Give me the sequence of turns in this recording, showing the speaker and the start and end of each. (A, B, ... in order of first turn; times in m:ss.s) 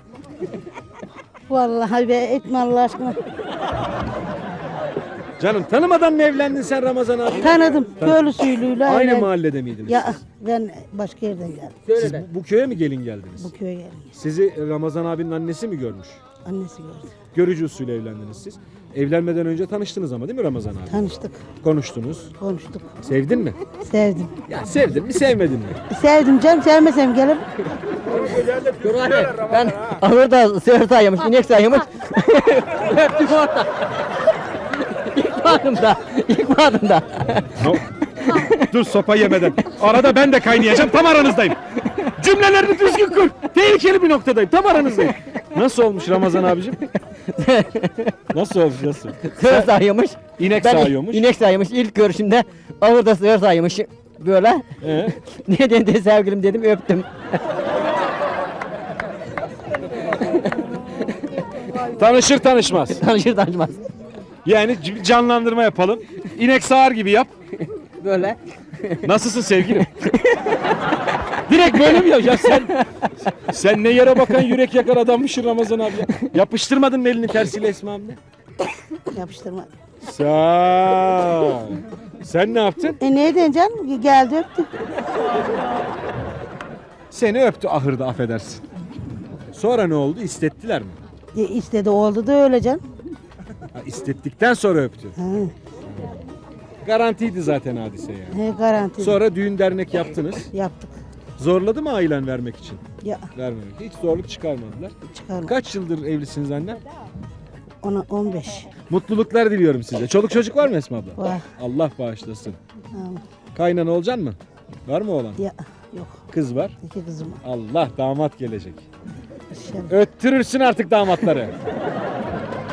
0:01.5-0:03.2 A
0:05.4-0:10.2 B
0:07.4-0:09.3 A
0:09.9-0:11.8 A
0:11.9-0:13.5 B
0:13.4-0:14.1 A
0:14.1-0:16.2 B
0:16.4-0:17.1 A
0:17.3-0:21.0 B
0:20.9-0:21.4 A
0:21.6-0:22.3 B
0:22.4-0:23.0 A
0:23.0-0:23.6 B
0:23.8-0:24.3 A
0:24.4-0:25.8 B
0:25.9-0:27.5 A
0:28.8-0:33.7 C
0:34.9-0:37.7 C
0:37.6-0:37.8 B
0:38.3-0:38.6 C
0:38.4-0:46.9 B
0:47.3-0:48.1 C
0:48.3-0:49.8 B
0:49.2-0:54.6 C
0:50.3-0:51.3 B
0:54.8-0:55.2 B
0:55.4-0:57.1 C
1:01.8-1:03.0 B
1:03.0-1:03.8 C
1:04.4-1:07.3 B
1:08.0-1:08.4 C
1:09.0-1:10.0 B
1:11.4-1:12.8 B
1:13.3-1:18.2 B
1:19.1-1:19.7 A
1:20.0-1:23.0 B
1:23.0-1:24.7 A
1:27.1-1:28.6 B
1:29.5-1:31.0 B
1:31.3-1:32.8 A
1:33.7-1:35.1 B
1:35.2-1:35.5 A
1:36.8-1:38.4 B
1:38.3-1:39.2 A
1:39.0-1:40.5 B
1:40.5-1:40.9 A
1:41.4-1:42.8 B
1:43.3-1:44.9 B
1:45.1-1:45.5 A
1:45.4-1:46.8 B
1:47.8-1:48.7 A
1:48.9-1:52.6 B
1:51.2-1:51.4 A
1:52.9-1:53.2 A
1:53.5-1:55.4 B
1:55.4-1:56.2 A
1:56.3-1:56.7 B
1:56.8-1:57.4 A
1:57.4-1:58.8 B
1:59.5-1:59.9 A
1:59.9-2:01.5 B